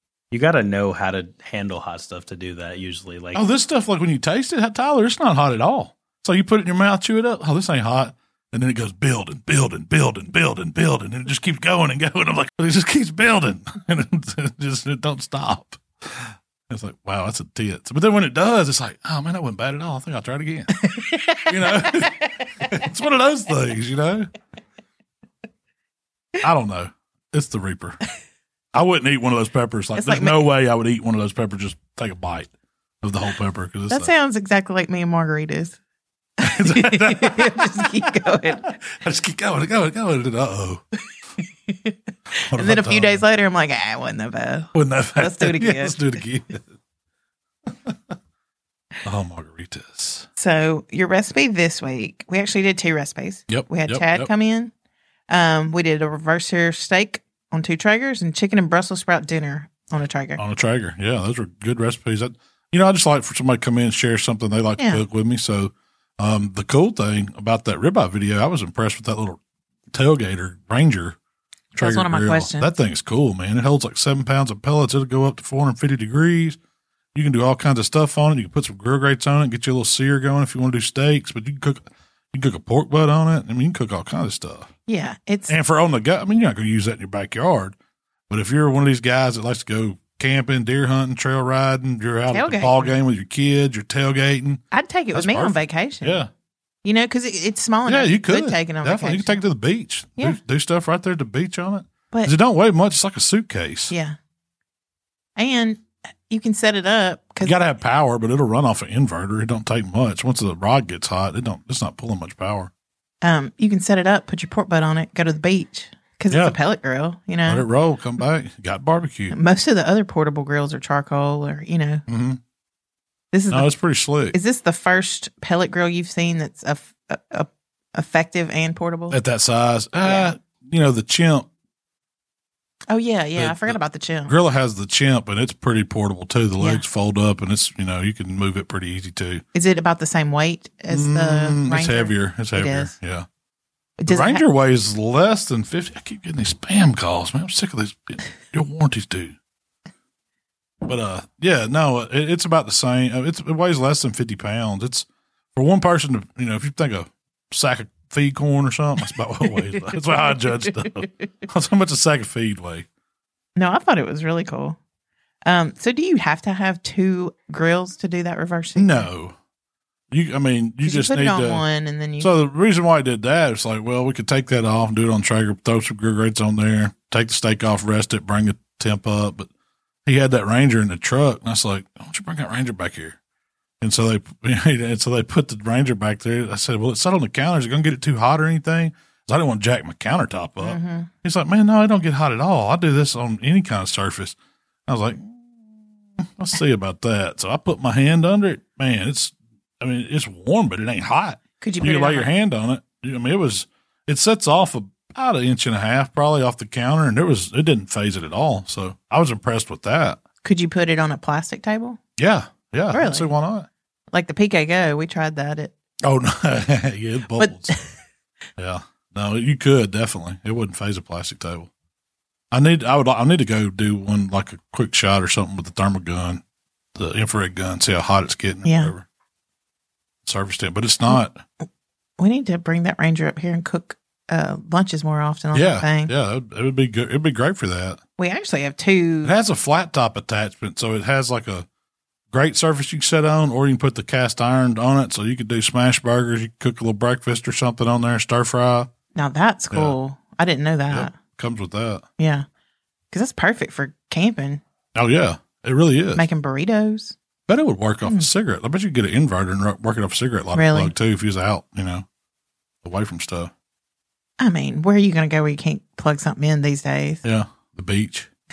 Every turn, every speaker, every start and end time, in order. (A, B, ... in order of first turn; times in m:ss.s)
0:00.3-0:03.4 A
0:03.3-0:24.3 B
0:20.9-0:21.9 C
0:26.4-0:28.0 B
0:28.7-0:32.5 B
0:30.0-0:30.4 C
0:33.0-0:34.1 B
0:33.9-0:35.8 C
0:36.4-0:38.7 C
0:36.4-0:40.8 B
0:41.7-0:46.0 C
0:42.5-0:43.2 B
0:44.7-0:46.6 B
0:47.7-0:48.0 B
0:49.0-0:50.3 B
0:50.4-0:54.7 C
0:53.5-0:54.3 B
0:55.3-1:00.4 C
1:00.4-1:09.4 B
1:04.8-1:05.0 C
1:09.9-1:11.2 B
1:11.7-1:16.6 B
1:11.8-1:12.7 C
1:17.1-1:24.7 B
1:24.9-1:25.5 C
1:25.5-1:27.7 B
1:28.3-1:36.3 B
1:32.3-1:32.9 C
1:34.7-1:36.2 C
1:36.8-1:39.4 C
1:37.8-1:43.9 B
1:43.9-1:44.2 C
1:45.4-1:47.6 C
1:47.4-1:52.7 B
1:53.2-1:57.6 C
1:56.3-1:56.6 B
1:57.5-1:59.4 B
1:59.3-2:02.0 C
2:02.1-2:02.4 B
2:03.3-2:03.7 C
2:03.5-2:04.4 B
2:04.3-2:09.2 C
2:09.1-2:11.5 B
2:10.0-2:10.3 C
2:12.9-2:14.3 C
2:13.4-2:19.4 B
2:16.6-2:16.8 C
2:19.5-2:22.9 C
2:20.9-2:23.2 B
2:24.0-2:24.4 C
2:24.1-2:29.3 B
2:30.8-2:42.9 B
2:39.8-2:40.2 C
2:43.6-2:44.8 C
2:45.4-2:49.1 C
2:48.8-2:49.3 B
2:50.1-2:51.6 B
2:50.8-2:52.3 C
2:52.2-2:59.5 B
3:00.0-3:03.2 B
3:03.8-3:14.4 B
3:10.6-3:11.1 C
3:14.9-3:30.2 B
3:21.6-3:22.3 C
3:30.4-3:32.0 C
3:32.2-3:33.7 B
3:32.9-3:33.3 C
3:34.1-3:35.7 C
3:36.0-3:37.8 B
3:37.3-3:37.9 C
3:38.6-3:41.7 B
3:42.5-3:46.4 B
3:46.9-3:49.0 B
3:48.6-3:48.9 C
3:50.2-3:51.4 B
3:52.2-3:56.1 C
3:55.5-3:58.0 B
3:58.2-3:59.3 C
3:59.2-4:01.7 B
4:02.3-4:08.9 B
4:09.1-4:11.1 C
4:09.7-4:10.0 B
4:10.9-4:12.0 B
4:12.2-4:12.4 C
4:13.1-4:14.6 C
4:14.9-4:16.2 B
4:16.1-4:17.1 C
4:17.5-4:22.0 B
4:20.5-4:20.9 C
4:22.8-4:23.5 B
4:24.4-4:27.2 C
4:27.2-4:28.3 B